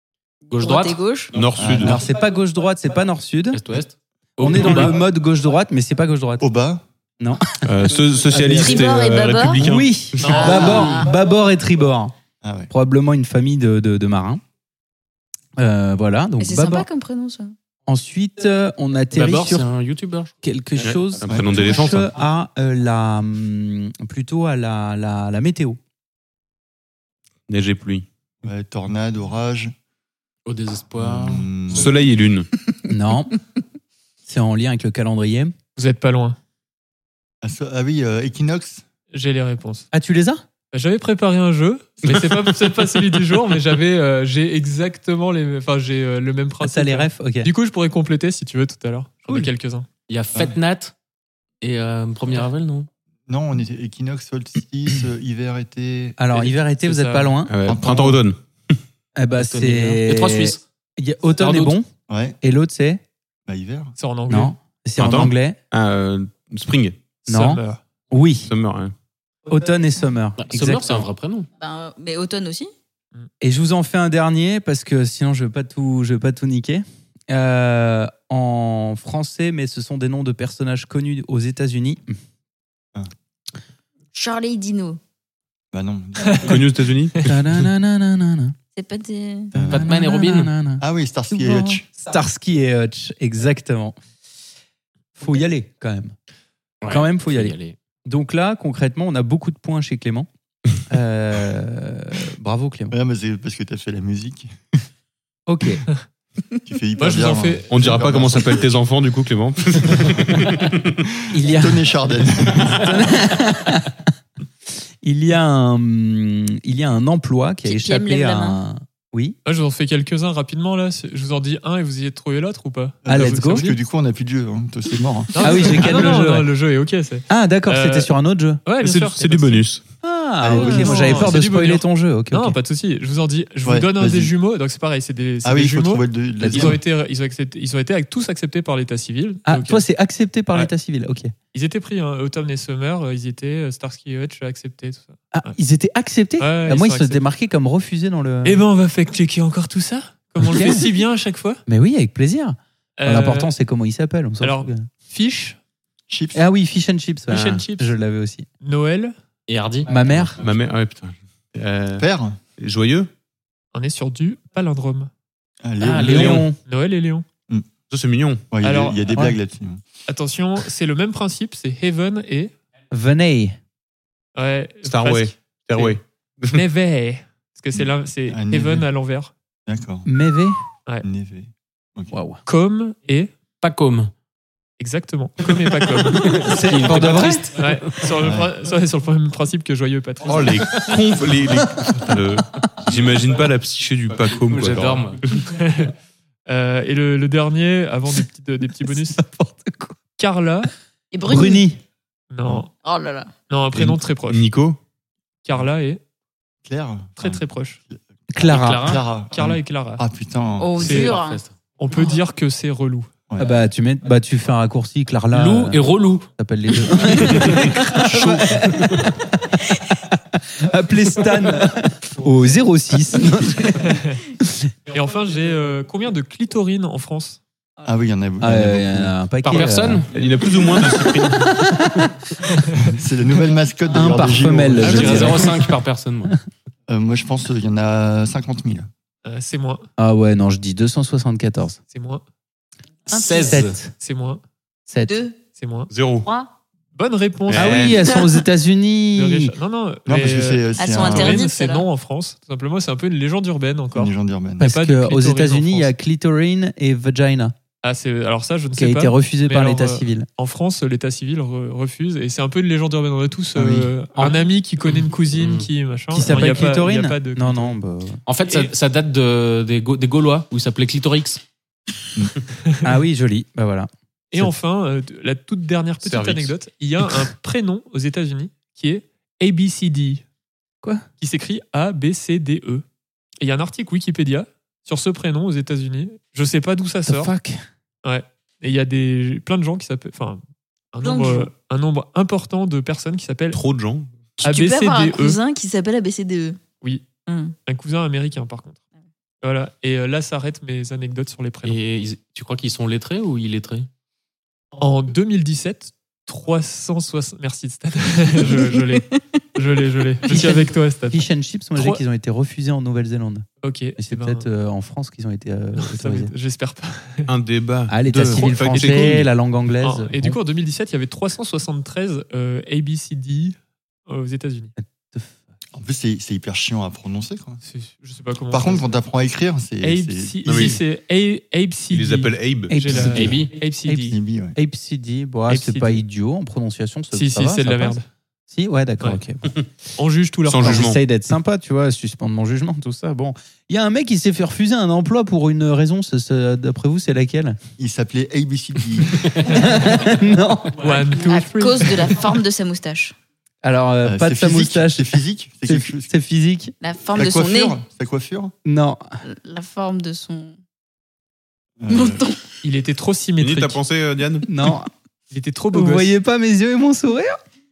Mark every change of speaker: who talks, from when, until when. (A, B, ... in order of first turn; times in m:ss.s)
0:00.5-0:01.3 A
0:00.5-0:01.0 B
0:01.3-0:02.0 C
0:01.5-0:02.0 D
0:01.6-0:03.6 E
0:03.5-0:05.0 B
0:04.4-0:06.4 E
0:06.4-0:06.8 D
0:07.2-0:07.6 E
0:07.6-0:10.7 C
0:08.3-0:08.8 E
0:08.5-0:09.6 A
0:09.6-0:12.1 E
0:10.2-0:10.6 F
0:10.2-0:11.1 A
0:12.4-0:12.7 D
0:12.7-0:14.4 E
0:15.6-0:16.9 E
0:16.4-0:17.5 A
0:17.9-0:19.7 E
0:19.1-0:20.3 B
0:20.4-0:25.8 E
0:20.8-0:22.1 C
0:27.5-0:28.1 C
0:28.4-0:29.7 D
0:30.4-0:31.5 B
0:31.0-0:31.9 D
0:31.7-0:32.5 C
0:32.8-0:33.4 E
0:34.2-0:35.5 E
0:35.8-0:36.4 F
0:37.4-0:38.8 D
0:39.1-0:39.9 F
0:39.9-0:40.4 E
0:40.7-0:49.9 F
0:46.6-0:47.5 E
0:50.1-0:50.9 B
0:51.6-0:52.9 B
0:53.3-0:56.2 D
0:56.2-0:57.5 E
0:56.3-0:57.3 F
0:57.5-0:58.8 C
0:57.6-0:58.2 D
0:59.2-1:01.9 E
0:59.4-1:00.6 B
1:01.4-1:01.8 B
1:02.1-1:02.4 D
1:02.4-1:03.0 E
1:03.5-1:03.9 D
1:04.0-1:04.5 F
1:04.3-1:05.6 E
1:05.0-1:07.0 C
1:07.2-1:07.8 F
1:07.3-1:08.5 E
1:08.5-1:08.9 C
1:09.5-1:11.1 E
1:10.4-1:11.5 B
1:11.6-1:12.7 A
1:13.4-1:22.2 E
1:24.1-1:25.0 A
1:25.7-1:26.7 D
1:26.2-1:26.5 F
1:26.4-1:27.3 C
1:27.2-1:28.6 E
1:28.8-1:29.5 A
1:29.5-1:29.9 D
1:29.6-1:30.8 E
1:29.6-1:30.5 B
1:30.8-1:31.8 D
1:31.3-1:34.0 E
1:35.2-1:36.1 E
1:36.8-1:37.8 B
1:36.9-1:40.3 E
1:40.9-1:43.0 E
1:42.9-1:44.5 D
1:45.5-1:45.8 E
1:46.6-1:48.7 D
1:47.0-1:47.7 F
1:47.7-1:50.9 C
1:51.3-1:51.8 E
1:51.4-1:53.0 D
1:52.6-1:54.0 E
1:55.0-1:59.4 E
1:57.6-1:58.6 A
1:59.4-2:03.8 F
2:03.0-2:06.0 D
2:03.1-2:03.6 E
2:05.3-2:08.1 F
2:05.4-2:06.5 E
2:07.3-2:08.6 E
2:08.6-2:09.6 F
2:08.8-2:09.8 C
2:10.0-2:12.6 E
2:10.4-2:11.3 D
2:10.6-2:19.8 F
2:13.6-2:14.3 D
2:15.4-2:16.8 D
2:16.4-2:16.8 E
2:19.4-2:21.3 E
2:21.5-2:25.5 F
2:25.3-2:28.6 E
2:26.4-2:27.2 F
2:28.4-2:31.6 F
2:30.4-2:30.8 E
2:31.7-2:34.9 E
2:33.0-2:33.5 F
2:34.4-2:35.6 F
2:36.1-2:36.5 D
2:36.3-2:38.4 E
2:37.4-2:37.8 B
2:38.6-2:39.1 F
2:39.5-2:40.3 B
2:39.8-2:40.4 E
2:40.4-2:43.1 C
2:42.0-2:42.4 D
2:43.7-2:45.1 F
2:45.6-2:46.4 D
2:45.8-2:46.6 E
2:46.0-2:46.4 C
2:46.6-2:47.2 F
2:47.9-2:48.5 C
2:48.5-2:49.8 D
2:48.6-2:49.0 F
2:50.1-2:52.5 F
2:52.9-2:53.6 E
2:54.4-2:56.0 F
2:54.8-2:56.6 C
2:56.5-2:59.3 F
2:57.8-2:58.9 D
2:59.7-3:00.1 D
3:00.0-3:00.6 E
3:01.0-3:02.1 D
3:02.1-3:02.4 E
3:02.4-3:03.3 F
3:03.6-3:04.1 B
3:04.8-3:06.4 F
3:06.0-3:07.8 B
3:06.4-3:07.5 E
3:07.1-3:10.6 F
3:08.2-3:08.5 D
3:10.2-3:15.1 C
3:14.4-3:15.2 B
3:15.4-3:15.9 F
3:16.5-3:19.2 F
3:18.9-3:19.9 E
3:20.2-3:20.7 F
3:21.1-3:21.6 A
3:21.2-3:21.8 E
3:22.3-3:22.7 F
3:22.8-3:23.3 A
3:23.5-3:24.5 F
3:23.7-3:24.8 C
3:25.4-3:26.0 F
3:26.6-3:30.8 D
3:27.2-3:27.8 F
3:28.3-3:29.0 E
3:29.3-3:30.0 F
3:30.6-3:31.4 A
3:30.8-3:31.2 F
3:30.8-3:31.5 B
3:31.8-3:33.1 F
3:33.4-3:44.7 E
3:35.3-3:36.2 B
3:37.4-3:39.1 B
3:43.8-3:44.2 F
3:44.9-3:47.4 F
3:47.8-3:49.1 D
3:48.4-3:50.0 E
3:49.4-3:50.1 B
3:50.1-3:51.6 C
3:50.8-3:52.1 E
3:52.8-3:55.5 D
3:53.9-3:55.7 E
3:54.8-3:56.4 B
3:56.9-3:58.9 D
3:59.2-3:59.8 F
4:00.0-4:01.8 E
4:01.9-4:02.2 F
4:03.1-4:03.8 B
4:03.1-4:03.5 A
4:03.4-4:03.9 E
4:04.0-4:04.4 F
4:04.9-4:05.2 E
4:05.1-4:05.4 A
4:05.6-4:05.9 F
4:05.9-4:06.3 C
4:06.2-4:06.5 A
4:06.9-4:08.0 F
4:07.5-4:08.0 C
4:07.5-4:09.5 E
4:09.1-4:15.9 F
4:10.1-4:11.4 D
4:10.8-4:11.9 A
4:13.9-4:14.7 D
4:14.6-4:17.5 E
4:17.8-4:27.8 F
4:18.8-4:20.3 E
4:23.6-4:23.9 D
4:25.3-4:25.7 B
4:26.1-4:28.2 E
4:28.2-4:31.4 B
4:32.8-4:34.5 E
4:34.3-4:40.2 F
4:36.0-4:36.5 C
4:41.2-4:42.8 F
4:43.4-4:47.3 F
4:47.1-4:47.6 E
4:48.0-4:50.4 F
4:50.9-4:53.6 F
4:51.0-4:51.5 A
4:53.5-4:54.4 C
4:54.4-4:56.6 A
4:54.4-4:55.4 F
4:57.2-4:57.5 A
4:57.6-4:58.8 F
4:59.4-5:01.8 F
5:01.6-5:03.9 B
5:04.8-5:12.0 F
5:10.3-5:13.4 E
5:13.6-5:14.4 F
5:14.0-5:16.3 E
5:15.8-5:17.3 F
5:17.3-5:19.3 C
5:17.9-5:20.4 E
5:19.8-5:24.7 F
5:24.8-5:25.4 E
5:25.8-5:27.6 D
5:27.6-5:28.8 F
5:28.5-5:30.8 D
5:29.8-5:34.2 F
5:30.4-5:30.8 C
5:31.9-5:33.0 C
5:32.7-5:39.5 E
5:33.1-5:33.5 B
5:34.1-5:34.6 D
5:35.5-5:36.0 F
5:37.1-5:38.0 F
5:40.0-5:40.9 F
5:40.4-5:41.0 C
5:40.6-5:47.6 E
5:47.8-5:49.3 D
5:49.4-5:50.8 E
5:50.8-5:52.2 F
5:51.2-5:53.1 A
5:53.6-5:56.7 E
5:54.0-5:56.1 D
5:56.8-5:57.8 A
5:57.1-5:58.5 D
5:58.6-5:59.0 E
5:59.2-6:00.6 A
6:01.8-6:02.2 D
6:01.9-6:02.4 A
6:02.6-6:03.8 F
6:03.4-6:04.5 C
6:04.5-6:04.9 E
6:05.3-6:06.1 F
6:05.7-6:07.4 E